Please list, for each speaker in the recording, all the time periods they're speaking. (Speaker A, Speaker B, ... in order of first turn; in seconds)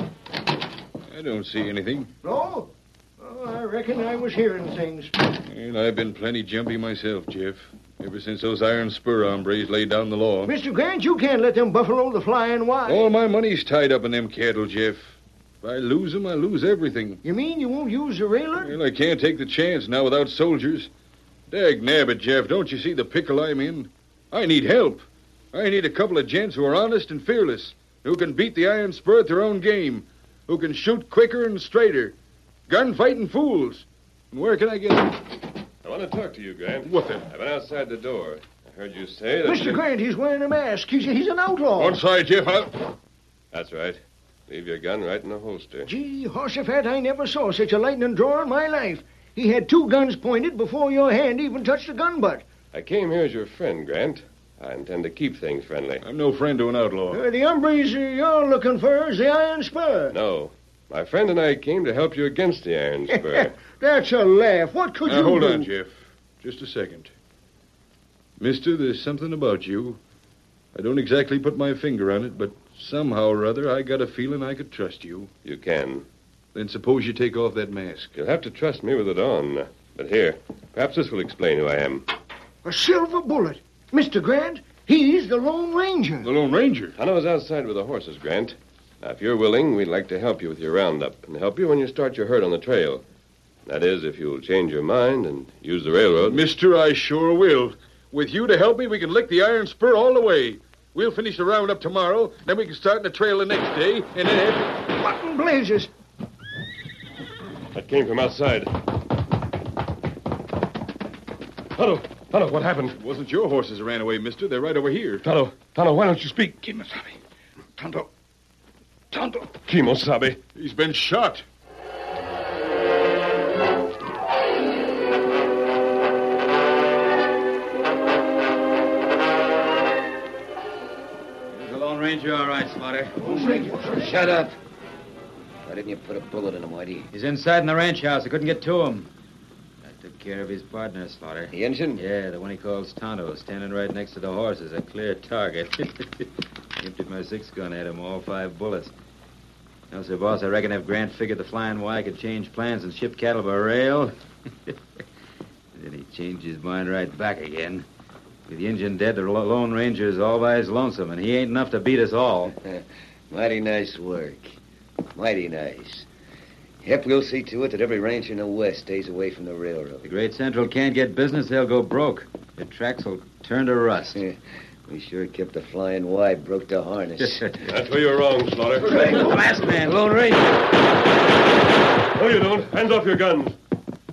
Speaker A: 1.1-2.1, 5.4-10.5, 12.9-17.2, 18.6-20.9, 21.5-32.1, 32.7-35.2, 36.8-37.3, 41.8-42.7, 56.0-57.2, 65.0-67.1, 68.4-70.0, 70.7-75.3, 76.5-78.1, 86.2-86.9, 96.2-104.9, 112.9-115.2, 119.1-119.5, 120.5-121.4
Speaker B: 2.2-5.1, 10.4-13.1, 17.2-18.8, 39.4-42.0, 45.9-52.5, 57.1-60.2, 63.1-65.7, 82.6-86.3, 104.9-105.9, 133.3-134.0
Speaker C: 35.8-39.8, 43.5-45.9, 52.7-56.0, 60.1-63.5, 75.4-76.0, 78.1-82.1, 87.0-93.0, 93.7-96.4, 107.7-108.7, 111.7-112.9, 115.2-116.6, 119.7-120.4, 177.6-179.0, 182.1-183.6
Speaker D: 131.5-133.5, 137.1-139.1, 139.8-146.2, 146.8-148.9, 149.9-154.1, 155.7-157.8, 158.5-162.5, 170.0-174.2, 178.9-180.0
Speaker E: 133.7-134.5, 135.7-137.1, 141.5-142.0, 162.6-164.6, 165.2-166.1, 166.8-170.0, 174.9-177.5, 178.9-179.3, 179.8-180.7